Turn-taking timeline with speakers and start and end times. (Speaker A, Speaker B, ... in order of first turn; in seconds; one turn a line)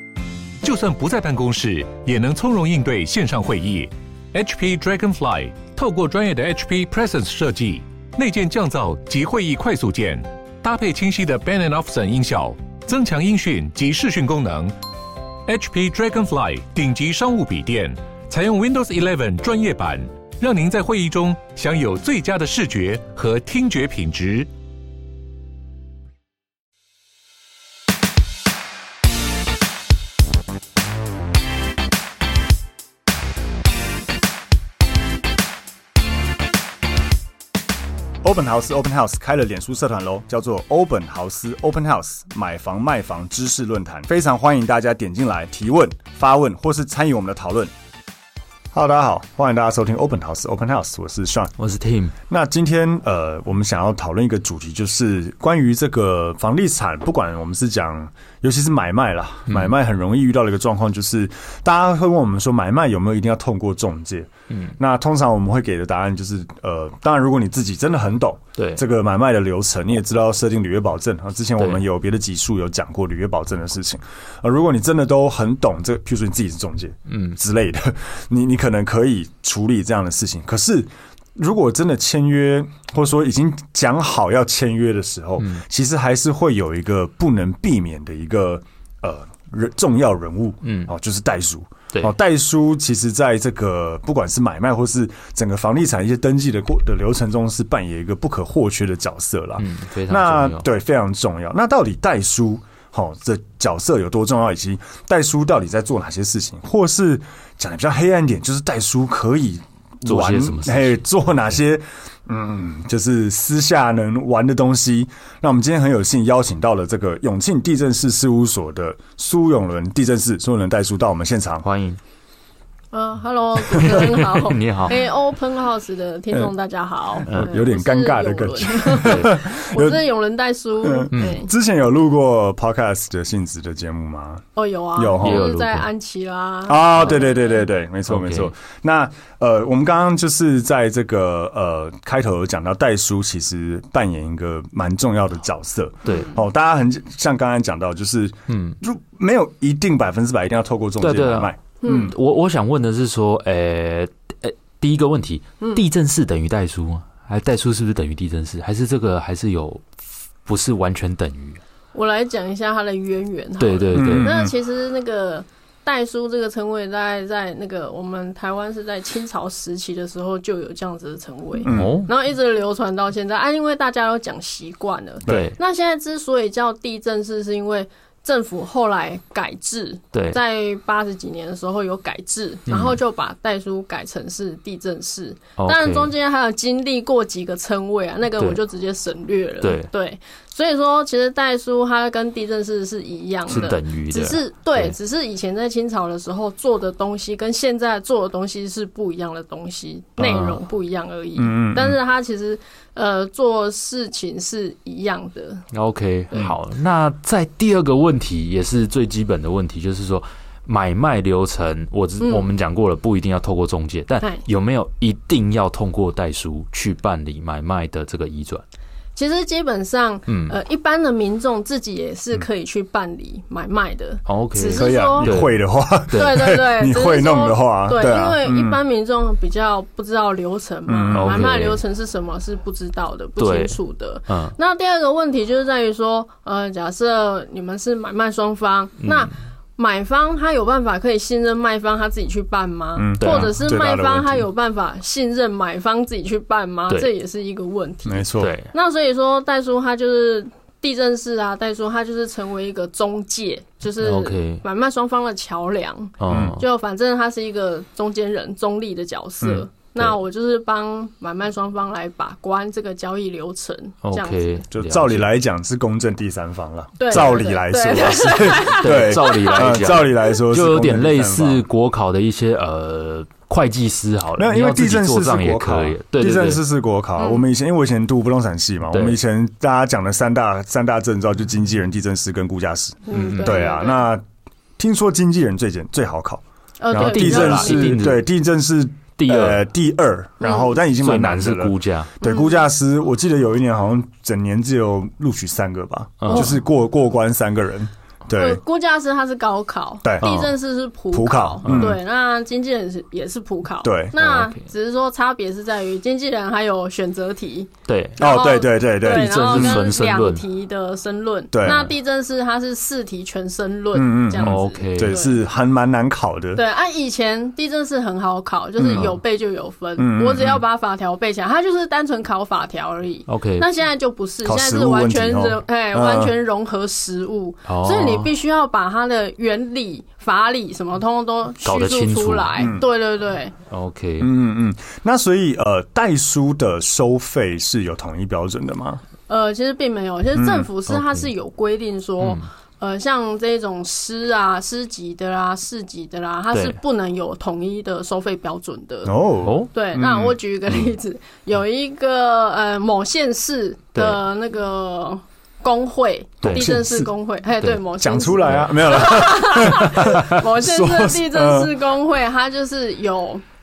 Speaker A: 0.6-14.7
Speaker A: 15.4-24.5
Speaker B: 38.2-47.7
Speaker B: 48.7-51.5
Speaker C: 51.6-52.1
Speaker B: 52.3-121.7
Speaker C: 59.5-59.7
Speaker C: 64.5-64.7
Speaker C: 68.6-68.8
Speaker C: 77.1-77.4
Speaker C: 90.6-90.9
Speaker C: 99.6-100.6
Speaker C: 110.0-111.0
Speaker C: 121.6-122.0
Speaker D: 122.9-131.5
Speaker C: 123.7-124.9
Speaker B: 127.2-130.0
Speaker C: 127.3-127.6
Speaker C: 129.0-129.3
Speaker B: 130.8-135.5
Speaker C: 131.1-131.4
Speaker D: 134.6-137.5
Speaker C: 135.2-135.9
Speaker B: 136.7-152.1
Speaker C: 138.1-138.5
Speaker C: 146.0-146.3
Speaker C: 148.5-148.8
Speaker C: 151.0-161.6
Speaker D: 151.8-152.1
Speaker D: 161.9-205.6
Speaker C: 163.6-164.3
Speaker B: 163.9-164.5
Speaker B: 171.6-172.0
Speaker C: 171.7-172.1
Speaker C: 175.3-175.5
Speaker C: 180.1-180.4
Speaker C: 182.7-183.0
Speaker C: 185.6-186.1
Speaker C: 189.6-189.9
Speaker C: 193.5-194.9
Speaker C: 200.2-200.6
Speaker B: 201.4-202.0
Speaker C: 205.7-218.6
Speaker D: 212.2-212.5
Speaker D: 219.2-225.3
Speaker C: 220.3-220.6
Speaker C: 224.3-225.6
Speaker B: 224.7-228.8
Speaker C: 226.1-226.5
Speaker D: 226.1-264.6
Speaker B: 230.9-231.5
Speaker C: 231.1-231.8
Speaker C: 233.4-233.7
Speaker C: 234.3-234.6
Speaker C: 239.0-239.3
Speaker B: 243.0-244.4
Speaker C: 243.2-243.5
Speaker B: 248.1-248.5
Speaker C: 248.4-248.7
Speaker C: 254.0-254.6
Speaker C: 256.2-256.6
Speaker B: 256.3-256.6
Speaker C: 264.0-265.3
Speaker B: 264.7-271.6
Speaker D: 267.0-269.8
Speaker C: 267.1-267.4
Speaker C: 268.7-276.6
Speaker B: 274.4-284.2
Speaker D: 277.2-277.4
Speaker C: 278.9-279.2
Speaker D: 283.1-284.0
Speaker C: 283.3-283.7
Speaker B: 284.8-298.6
Speaker D: 286.8-288.0
Speaker C: 287.0-288.2
Speaker C: 289.2-289.7
Speaker D: 290.4-290.7
Speaker C: 290.9-292.1
Speaker D: 292.2-292.6
Speaker C: 296.2-296.5
Speaker D: 298.3-315.4
Speaker B: 300.0-300.5
Speaker B: 301.1-302.0
Speaker C: 301.6-302.0
Speaker B: 303.8-304.2
Speaker C: 304.2-304.5
Speaker C: 307.9-308.2
Speaker B: 308.2-309.8
Speaker C: 309.0-310.4
Speaker B: 311.5-311.9
Speaker C: 311.6-311.9
Speaker B: 313.9-316.6
Speaker C: 314.4-315.2
Speaker D: 316.5-333.5
Speaker B: 318.8-319.1
Speaker B: 320.0-320.6
Speaker C: 323.3-323.7
Speaker B: 324.4-326.3
Speaker C: 327.7-328.3
Speaker C: 331.6-332.5
Speaker B: 332.6-332.8
Speaker C: 333.7-334.3
Speaker B: 334.2-339.0
Speaker D: 339.3-349.1
Speaker B: 340.4-340.6
Speaker C: 340.9-341.2
Speaker C: 342.2-342.4
Speaker B: 349.0-350.4
Speaker C: 349.4-349.7
Speaker D: 349.7-363.4
Speaker C: 353.9-354.2
Speaker B: 356.4-357.1
Speaker C: 356.4-356.7
Speaker B: 358.0-361.8
Speaker C: 358.4-359.0
Speaker C: 360.0-360.2